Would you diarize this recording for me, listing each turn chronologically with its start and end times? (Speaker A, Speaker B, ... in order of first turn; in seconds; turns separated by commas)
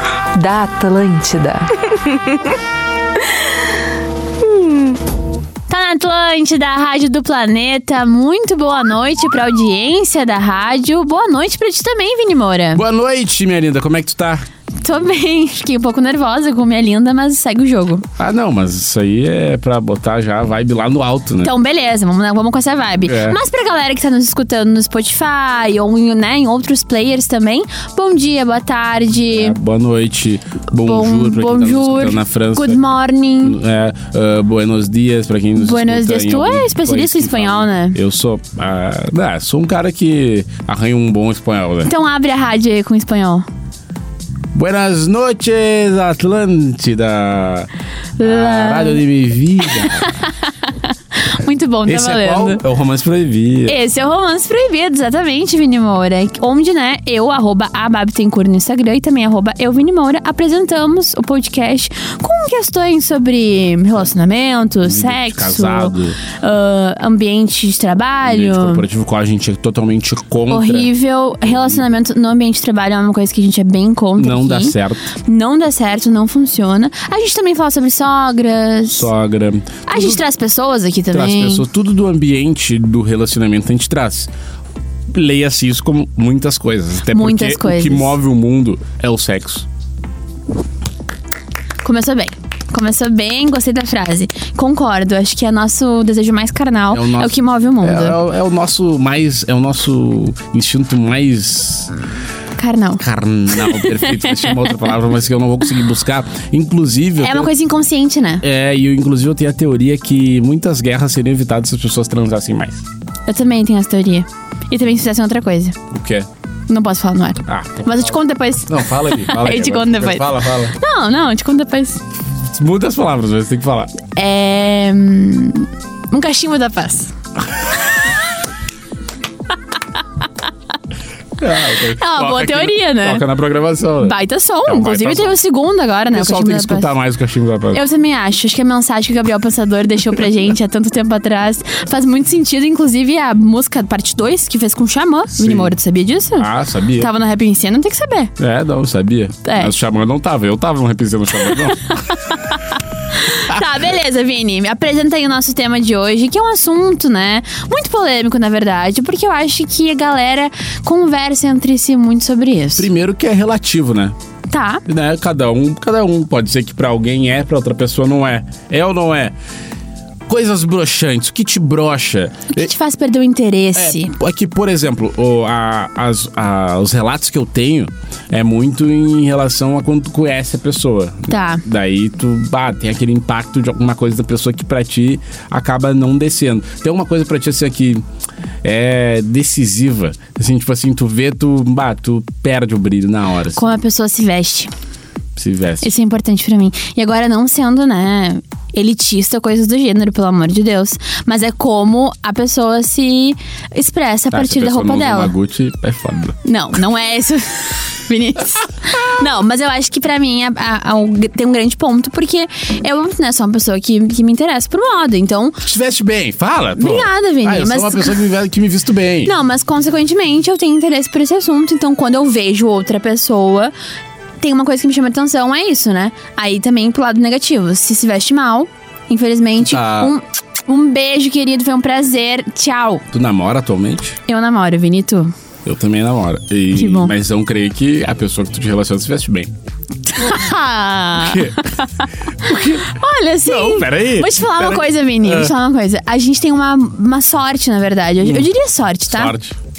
Speaker A: 0.3-2.4, Speaker B: 5.7-12.8, Speaker C: 12.7-14.4, Speaker B: 14.8-18.1, Speaker C: 18.2-21.5, Speaker B: 21.4-29.6, Speaker C: 23.1-23.4, Speaker C: 29.3-32.8, Speaker B: 30.8-33.6, Speaker C: 33.4-41.9, Speaker B: 35.5-38.0, Speaker B: 41.8-43.5, Speaker C: 44.5-50.1, Speaker B: 48.2-49.0, Speaker B: 49.6-52.6, Speaker C: 51.8-53.8, Speaker B: 53.6-68.8, Speaker C: 64.8-66.2, Speaker C: 68.2-70.9, Speaker B: 70.5-79.1, Speaker C: 71.4-71.8, Speaker C: 74.2-75.1, Speaker C: 78.9-80.2, Speaker B: 79.9-81.7, Speaker C: 81.1-84.3, Speaker C: 85.1-89.7, Speaker B: 87.1-88.1, Speaker B: 91.8-98.2, Speaker C: 96.9-101.9, Speaker B: 102.6-104.7, Speaker C: 103.0-107.5, Speaker B: 107.2-108.4, Speaker C: 108.4-112.8, Speaker B: 113.3-115.8, Speaker C: 115.9-116.3, Speaker B: 116.7-122.0, Speaker C: 117.5-120.8, Speaker C: 122.5-123.9, Speaker B: 124.2-127.1, Speaker C: 131.4-135.4, Speaker B: 131.6-133.2, Speaker B: 134.0-136.9, Speaker C: 136.1-137.8, Speaker B: 137.7-148.3, Speaker C: 145.4-145.7, Speaker C: 146.3-147.1, Speaker C: 148.4-152.0, Speaker B: 149.4-149.7, Speaker B: 151.5-152.6, Speaker B: 153.1-162.9, Speaker C: 162.8-164.1, Speaker B: 164.5-164.8, Speaker C: 164.8-169.3, Speaker C: 170.3-172.7, Speaker B: 172.5-174.1, Speaker C: 173.7-188.0, Speaker B: 181.3-181.6, Speaker C: 188.6-193.8, Speaker B: 193.5-194.7, Speaker C: 195.3-195.9, Speaker B: 195.8-205.3, Speaker C: 204.3-206.4, Speaker B: 206.4-215.6, Speaker C: 215.6-219.3, Speaker B: 216.8-218.2, Speaker B: 219.2-223.7, Speaker B: 224.4-233.0, Speaker C: 229.6-230.1, Speaker C: 233.1-234.2, Speaker B: 234.3-235.3, Speaker C: 235.6-239.5, Speaker B: 236.7-237.1, Speaker B: 240.1-249.3, Speaker C: 241.2-241.7, Speaker C: 242.4-242.9, Speaker C: 243.4-245.5, Speaker C: 248.2-248.5, Speaker C: 249.1-249.6